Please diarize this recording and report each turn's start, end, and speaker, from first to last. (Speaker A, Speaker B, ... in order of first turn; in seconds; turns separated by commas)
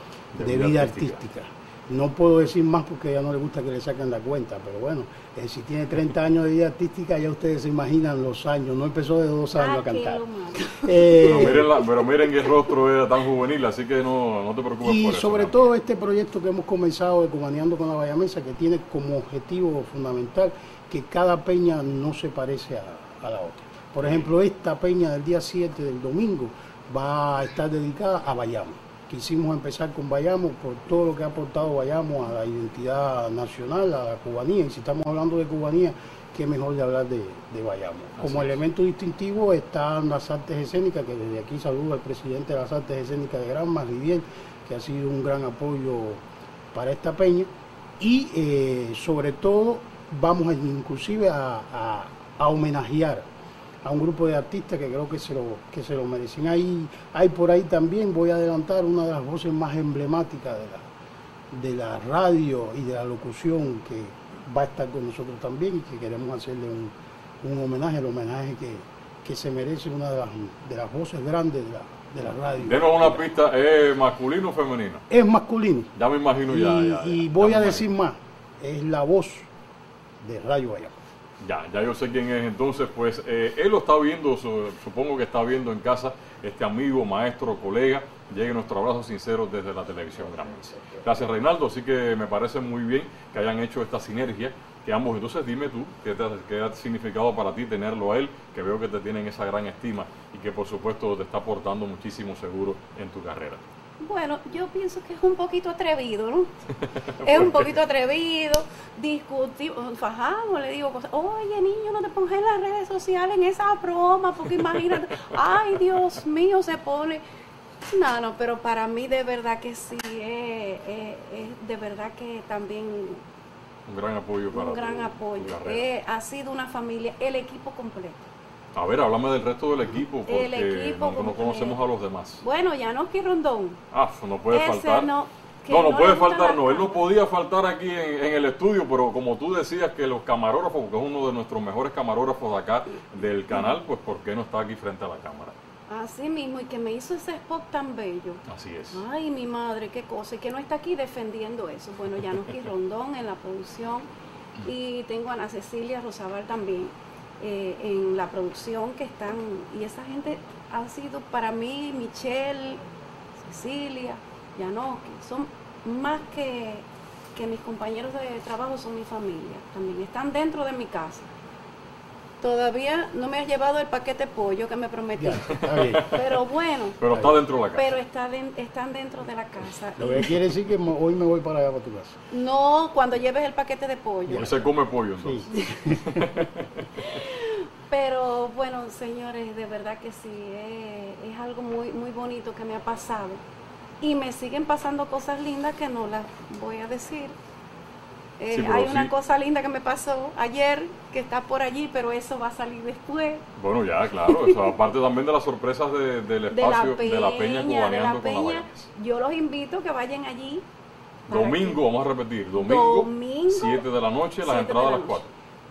Speaker A: 0.3-1.2, Speaker B: 0.4-11.8, Speaker C: 9.6-11.6, Speaker A: 11.2-15.6, Speaker B: 14.8-46.2, Speaker A: 24.0-24.3, Speaker A: 38.2-38.6, Speaker B: 46.7-47.5, Speaker B: 48.0-53.2, Speaker B: 53.8-60.9, Speaker B: 61.5-73.3, Speaker A: 72.6-75.0, Speaker B: 75.1-75.9, Speaker A: 76.0-77.8, Speaker B: 76.4-79.5, Speaker B: 80.2-81.0, Speaker A: 81.4-103.6, Speaker C: 104.0-106.5, Speaker A: 106.8-107.8, Speaker C: 107.2-117.2, Speaker C: 117.9-123.2, Speaker A: 123.9-125.8, Speaker C: 124.5-128.3, Speaker A: 128.8-132.4, Speaker C: 130.3-131.8, Speaker C: 132.4-133.8, Speaker A: 133.9-135.1, Speaker C: 134.5-137.1, Speaker A: 135.7-145.6, Speaker C: 145.9-154.1, Speaker A: 148.5-149.0, Speaker C: 154.6-162.8, Speaker C: 163.4-171.3, Speaker C: 172.4-177.1, Speaker B: 175.2-176.1, Speaker A: 175.6-176.4, Speaker A: 177.0-178.0, Speaker C: 177.7-180.4, Speaker B: 180.0-182.2, Speaker C: 182.3-184.6, Speaker B: 184.3-184.6, Speaker A: 184.3-187.2, Speaker B: 185.2-186.1, Speaker C: 185.5-186.0, Speaker C: 187.0-193.4, Speaker C: 194.0-197.3, Speaker C: 198.4-203.4, Speaker A: 198.5-199.1, Speaker A: 203.6-208.9, Speaker C: 204.1-204.8, Speaker C: 206.5-210.6, Speaker C: 211.3-211.8, Speaker A: 211.3-215.3, Speaker C: 212.6-213.8, Speaker C: 214.4-215.3